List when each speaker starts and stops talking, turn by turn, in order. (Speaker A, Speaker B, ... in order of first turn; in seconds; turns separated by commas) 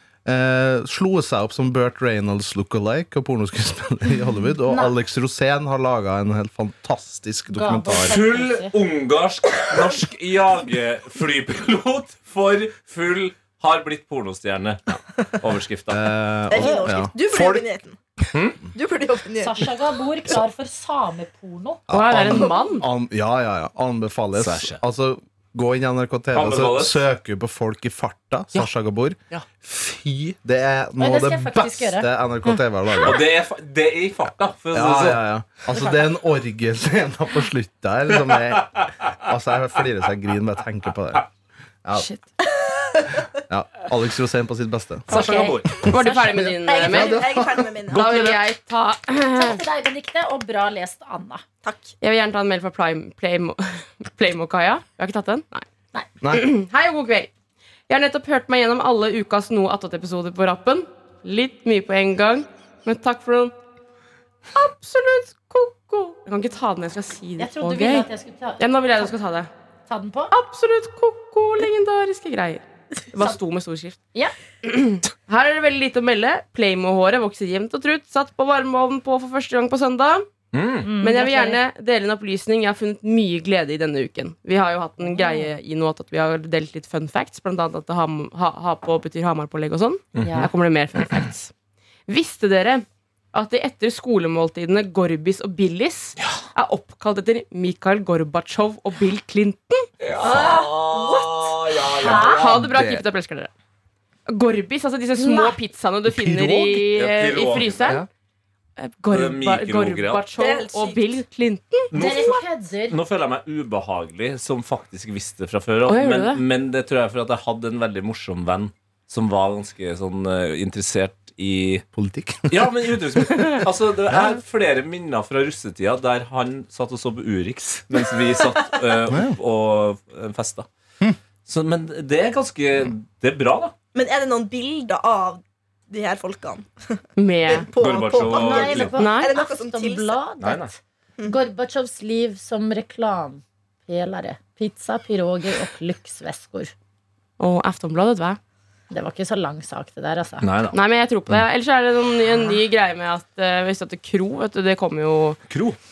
Speaker A: 0.2-8.2, Speaker B: 4.7-4.9, Speaker B: 7.5-8.7, Speaker C: 8.0-16.1, Speaker A: 15.9-17.6, Speaker D: 16.5-18.0, Speaker C: 18.3-18.6, Speaker D: 18.8-19.7, Speaker B: 19.4-21.8, Speaker A: 21.9-33.2, Speaker E: 21.9-22.9, Speaker C: 24.4-24.8, Speaker C: 26.3-27.0, Speaker B: 31.0-32.1, Speaker C: 33.0-35.2, Speaker A: 34.7-41.3, Speaker D: 42.6-43.2, Speaker A: 43.5-45.1, Speaker B: 45.1-46.5, Speaker C: 45.1-45.9, Speaker E: 45.8-47.2, Speaker A: 45.9-48.0, Speaker D: 46.7-48.2, Speaker E: 47.9-49.6, Speaker B: 49.3-51.4, Speaker D: 51.6-51.9, Speaker E: 52.0-55.7, Speaker E: 56.3-57.3, Speaker E: 57.9-63.5, Speaker E: 64.5-68.1, Speaker B: 67.4-69.2, Speaker E: 68.6-69.5, Speaker B: 69.9-70.3, Speaker E: 70.3-74.0, Speaker E: 74.6-80.3, Speaker C: 80.5-80.9, Speaker B: 80.8-81.6, Speaker E: 80.9-91.5, Speaker B: 85.0-85.6, Speaker C: 90.2-90.5, Speaker B: 90.2-90.5, Speaker E: 92.1-99.9, Speaker C: 100.0-102.6, Speaker D: 100.2-102.0, Speaker A: 102.0-103.0, Speaker B: 102.0-102.4, Speaker E: 102.2-103.5, Speaker E: 104.3-108.0, Speaker B: 105.2-105.6, Speaker A: 106.1-106.8, Speaker C: 106.9-108.0, Speaker E: 108.8-112.3, Speaker C: 109.1-110.3, Speaker D: 110.4-111.2, Speaker C: 111.9-121.8, Speaker B: 111.9-113.0, Speaker E: 115.9-116.4, Speaker A: 121.9-123.6, Speaker C: 122.5-130.7, Speaker A: 124.1-124.4, Speaker A: 129.1-129.4, Speaker C: 131.5-133.7, Speaker D: 133.9-140.2, Speaker E: 137.2-137.7, Speaker C: 137.8-138.9, Speaker B: 138.3-146.7, Speaker E: 138.9-139.3, Speaker C: 140.4-140.7, Speaker E: 147.4-148.4, Speaker B: 148.9-150.5, Speaker C: 150.4-150.8, Speaker E: 150.7-155.4, Speaker C: 155.5-155.8